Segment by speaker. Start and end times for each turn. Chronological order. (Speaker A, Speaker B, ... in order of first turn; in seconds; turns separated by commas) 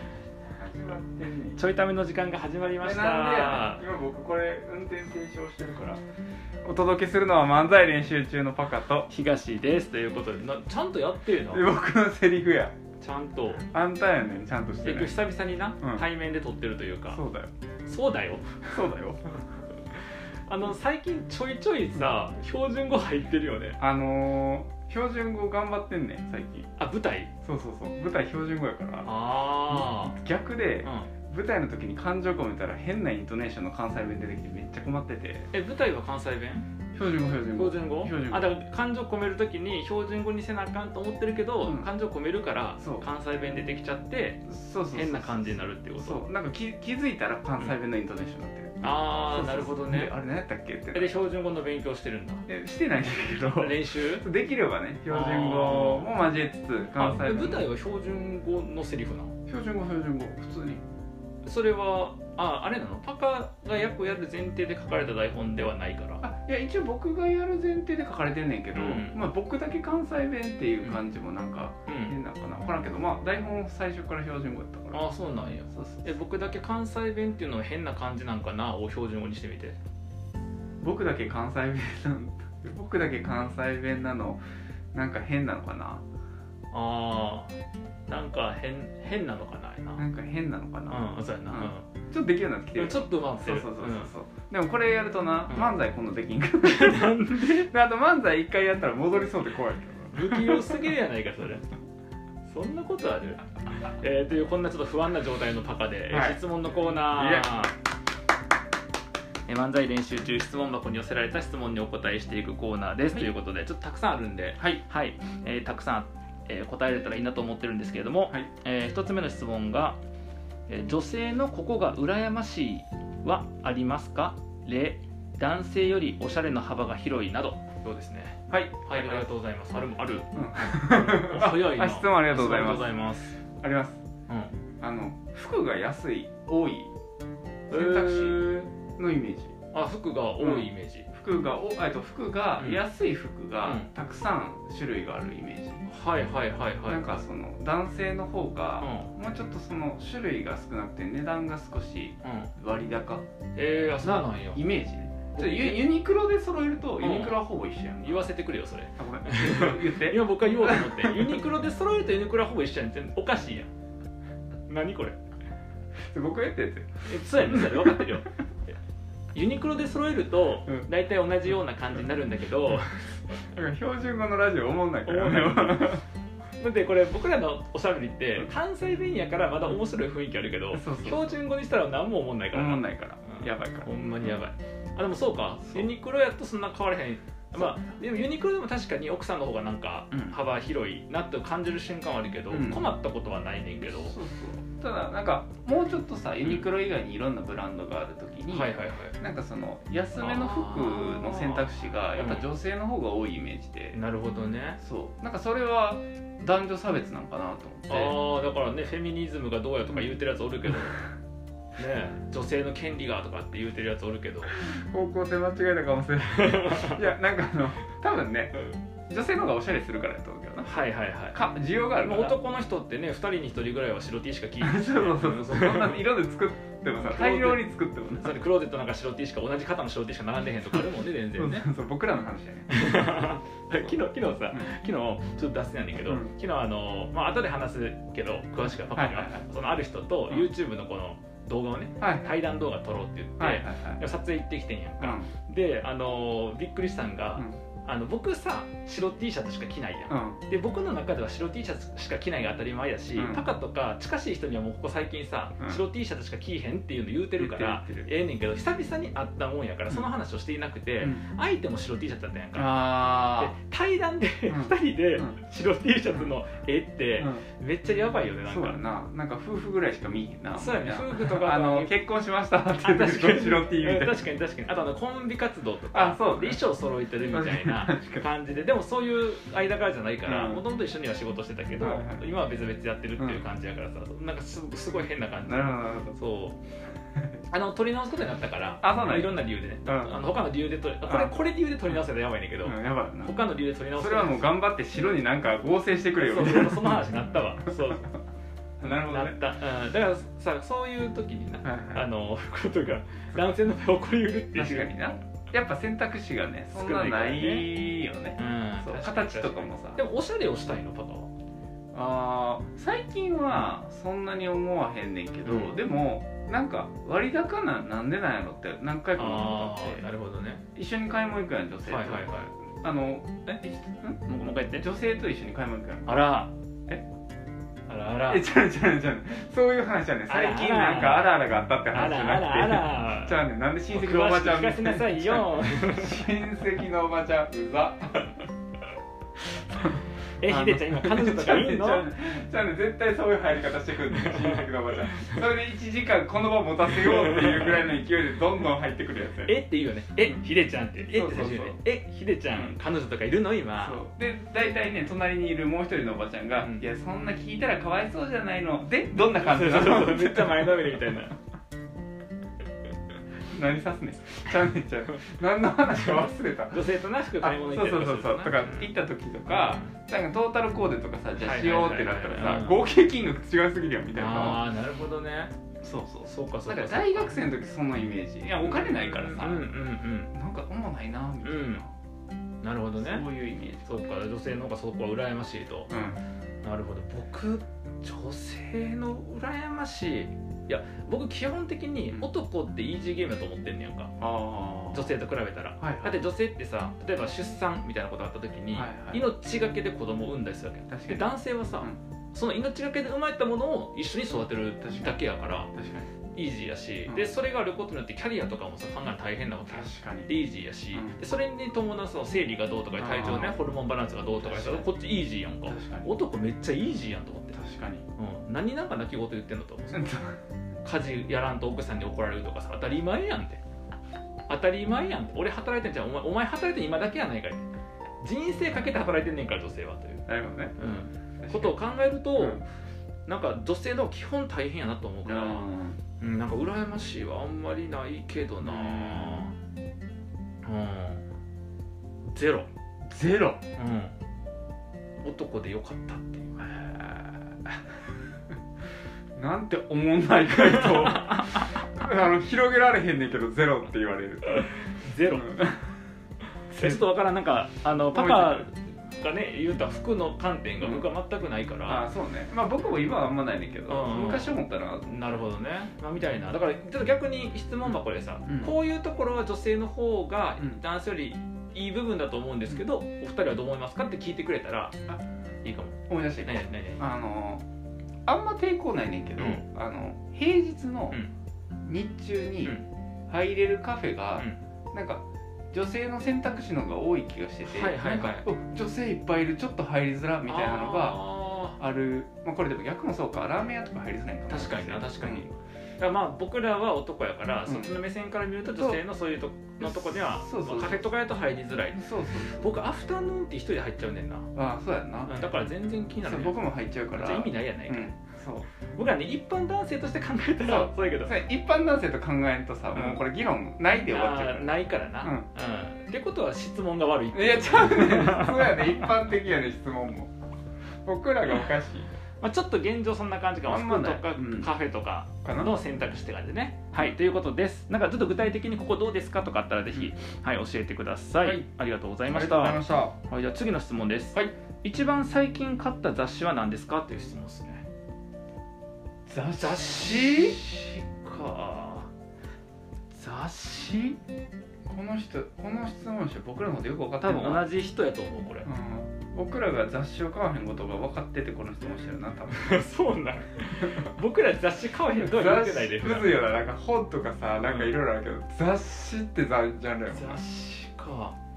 Speaker A: 0.5-1.6, Speaker B: 1.6-3.9, Speaker A: 2.8-6.0, Speaker A: 6.6-9.1, Speaker B: 9.1-11.7, Speaker A: 11.5-12.8, Speaker B: 13.0-13.7, Speaker A: 13.7-15.2, Speaker B: 14.8-17.2, Speaker A: 15.8-16.0, Speaker A: 17.1-17.5, Speaker B: 17.9-18.9, Speaker A: 18.7-19.2, Speaker B: 19.9-23.8, Speaker A: 23.8-26.7, Speaker B: 26.8-27.3, Speaker A: 27.4-29.1, Speaker B: 29.0-30.2, Speaker A: 29.6-35.5, Speaker B: 30.8-31.1, Speaker B: 35.5-36.7, Speaker A: 36.9-38.6, Speaker B: 37.6-46.2, Speaker A: 41.6-41.9, Speaker A: 42.8-43.1, Speaker A: 44.5-51.1, Speaker B: 48.8-50.1, Speaker B: 50.9-52.5, Speaker A: 52.5-57.7, Speaker B: 53.4-54.2, Speaker B: 55.1-56.1, Speaker B: 57.0-59.4, Speaker A: 59.5-60.8, Speaker B: 61.5-66.2, Speaker A: 66.2-75.0, Speaker B: 68.7-69.2, Speaker B: 71.9-72.2, Speaker B: 74.9-79.8, Speaker A: 75.7-76.1, Speaker A: 80.8-84.4, Speaker A: 84.9-86.0, Speaker B: 86.7-87.5, Speaker B: 88.1-90.0, Speaker A: 90.0-100.9, Speaker B: 90.9-91.9, Speaker B: 92.8-94.1, Speaker B: 95.5-95.8, Speaker B: 96.6-97.7, Speaker B: 100.1-101.7, Speaker B: 102.5-107.8, Speaker A: 106.1-106.4, Speaker A: 107.0-107.7, Speaker B: 109.5-120.0, Speaker A: 114.6-114.8, Speaker B: 120.7-133.4, Speaker A: 128.5-129.3, Speaker A: 130.3-132.9, Speaker A: 133.6-134.0, Speaker B: 134.3-134.6, Speaker A: 134.8-136.9, Speaker A: 137.7-139.5, Speaker B: 137.7-138.7, Speaker B: 139.7-141.1, Speaker A: 140.4-145.9, Speaker B: 143.6-143.9, Speaker B: 145.9-147.2, Speaker A: 146.8-158.3, Speaker B: 148.8-149.1, Speaker B: 152.2-152.5, Speaker B: 153.6-154.7, Speaker B: 155.3-155.9, Speaker B: 157.0-157.4, Speaker B: 158.0-163.7, Speaker A: 159.0-161.4, Speaker B: 164.7-165.2, Speaker A: 166.1-168.2, Speaker B: 167.1-168.3, Speaker B: 169.3-173.4, Speaker A: 173.5-176.0, Speaker B: 175.1-176.0, Speaker B: 176.6-194.2, Speaker A: 180.7-181.2, Speaker A: 182.5-184.4, Speaker A: 190.1-190.4, Speaker A: 192.5-192.9, Speaker A: 193.8-204.0, Speaker B: 198.5-199.2, Speaker B: 200.2-202.5, Speaker B: 203.9-204.8, Speaker A: 204.8-208.2, Speaker B: 207.9-211.0, Speaker B: 211.8-214.5, Speaker A: 214.5-220.7, Speaker B: 216.3-217.0, Speaker B: 220.6-221.4, Speaker A: 221.3-222.4, Speaker B: 222.0-226.1, Speaker A: 224.6-228.4, Speaker B: 227.0-231.7, Speaker A: 231.3-233.9, Speaker B: 232.7-268.8, Speaker A: 236.1-236.4, Speaker A: 238.9-239.5, Speaker A: 242.0-242.3, Speaker A: 243.4-244.0, Speaker A: 245.0-245.3, Speaker A: 250.1-250.4, Speaker A: 253.2-253.5, Speaker A: 257.4-258.1, Speaker A: 262.6-263.6, Speaker A: 264.5-265.4, Speaker A: 267.2-267.4, Speaker A: 268.5-274.2, Speaker B: 270.5-272.0, Speaker B: 272.8-286.6, Speaker A: 275.9-276.6, Speaker A: 277.2-278.3, Speaker A: 280.2-280.6, Speaker A: 281.8-282.3, Speaker A: 283.2-283.4, Speaker A: 285.4-286.2, Speaker B: 287.5-294.5, Speaker A: 288.8-290.2, Speaker A: 291.0-291.4, Speaker A: 292.6-293.4, Speaker A: 293.9-297.1, Speaker B: 296.2-298.1, Speaker A: 297.7-298.0, Speaker A: 298.8-299.4, Speaker B: 298.9-304.9, Speaker A: 301.6-302.1, Speaker A: 304.5-310.0, Speaker B: 306.7-307.7, Speaker B: 308.4-311.3, Speaker A: 311.9-320.1, Speaker B: 315.4-315.8, Speaker B: 319.2-320.6, Speaker A: 320.8-326.3, Speaker B: 321.9-322.5, Speaker B: 324.2-324.9, Speaker B: 326.1-326.5, Speaker B: 327.9-328.4, Speaker A: 328.3-338.5, Speaker B: 330.3-331.4, Speaker B: 331.9-336.3, Speaker A: 339.9-349.6, Speaker B: 340.4-342.1, Speaker B: 344.1-344.5, Speaker B: 347.4-347.6, Speaker B: 349.4-354.0, Speaker A: 351.0-351.8, Speaker A: 352.5-352.8, Speaker A: 353.8-361.1, Speaker B: 356.6-356.8, Speaker B: 359.4-361.4, Speaker A: 363.5-366.8, Speaker B: 366.7-368.9, Speaker A: 367.4-374.7, Speaker B: 369.5-369.9, Speaker B: 371.4-372.8, Speaker B: 374.1-375.6, Speaker A: 375.8-379.8, Speaker B: 376.2-377.4, Speaker B: 378.5-380.3, Speaker A: 380.3-381.9, Speaker B: 381.4-381.8, Speaker B: 382.6-383.3, Speaker A: 382.9-384.0, Speaker B: 383.9-385.9, Speaker A: 385.9-386.2, Speaker B: 386.6-394.1, Speaker A: 394.2-395.1, Speaker B: 394.9-405.7, Speaker A: 395.8-396.2, Speaker A: 398.7-399.3, Speaker A: 400.9-402.0, Speaker A: 404.8-406.1, Speaker B: 406.4-417.6, Speaker A: 409.7-410.3, Speaker A: 410.9-411.2, Speaker A: 413.0-413.6, Speaker A: 414.3-414.9, Speaker A: 415.6-416.2, Speaker A: 417.5-418.1, Speaker B: 418.2-420.1, Speaker A: 419.9-420.4, Speaker B: 420.8-423.6, Speaker B: 424.5-427.7, Speaker B: 428.2-430.2, Speaker A: 430.3-430.8, Speaker B: 430.8-432.7, Speaker A: 431.4-431.8, Speaker A: 432.4-432.6, Speaker B: 433.3-435.6, Speaker A: 435.2-436.0, Speaker B: 436.2-439.6, Speaker A: 438.6-439.5, Speaker B: 440.6-441.2, Speaker B: 442.3-442.7, Speaker A: 443.1-443.6, Speaker B: 443.8-444.2, Speaker B: 445.2-446.7, Speaker A: 446.6-447.8, Speaker A: 449.4-454.7, Speaker B: 450.6-451.8, Speaker B: 454.5-455.6, Speaker A: 455.2-455.9, Speaker A: 456.7-457.1, Speaker B: 456.7-462.0, Speaker A: 458.0-458.7, Speaker A: 460.8-461.1, Speaker A: 461.9-465.3, Speaker B: 463.9-474.9, Speaker A: 467.9-468.7, Speaker B: 475.6-477.1, Speaker A: 476.1-477.6, Speaker A: 478.3-481.2, Speaker B: 479.4-479.6, Speaker A: 481.9-491.2, Speaker B: 487.6-488.5, Speaker B: 490.5-491.8, Speaker A: 491.8-495.5, Speaker B: 494.5-504.5, Speaker A: 497.7-498.0, Speaker A: 498.8-499.0, Speaker A: 499.8-501.1, Speaker A: 501.9-502.8, Speaker A: 504.6-505.4, Speaker B: 505.3-508.1, Speaker A: 506.2-508.7, Speaker B: 508.9-511.4, Speaker A: 510.6-515.5, Speaker B: 512.9-513.2, Speaker B: 514.1-519.1, Speaker A: 517.3-520.3, Speaker A: 521.0-522.1, Speaker B: 522.4-537.9, Speaker A: 523.6-524.7, Speaker A: 525.4-525.8, Speaker A: 531.4-531.7, Speaker A: 532.3-533.2, Speaker A: 539.3-540.6, Speaker B: 539.6-542.1, Speaker B: 543.1-544.2, Speaker A: 544.9-547.7, Speaker B: 547.2-548.7, Speaker A: 548.6-552.8, Speaker B: 552.5-556.5, Speaker A: 553.8-554.1, Speaker A: 555.1-560.4, Speaker B: 557.6-558.0, Speaker B: 560.1-561.4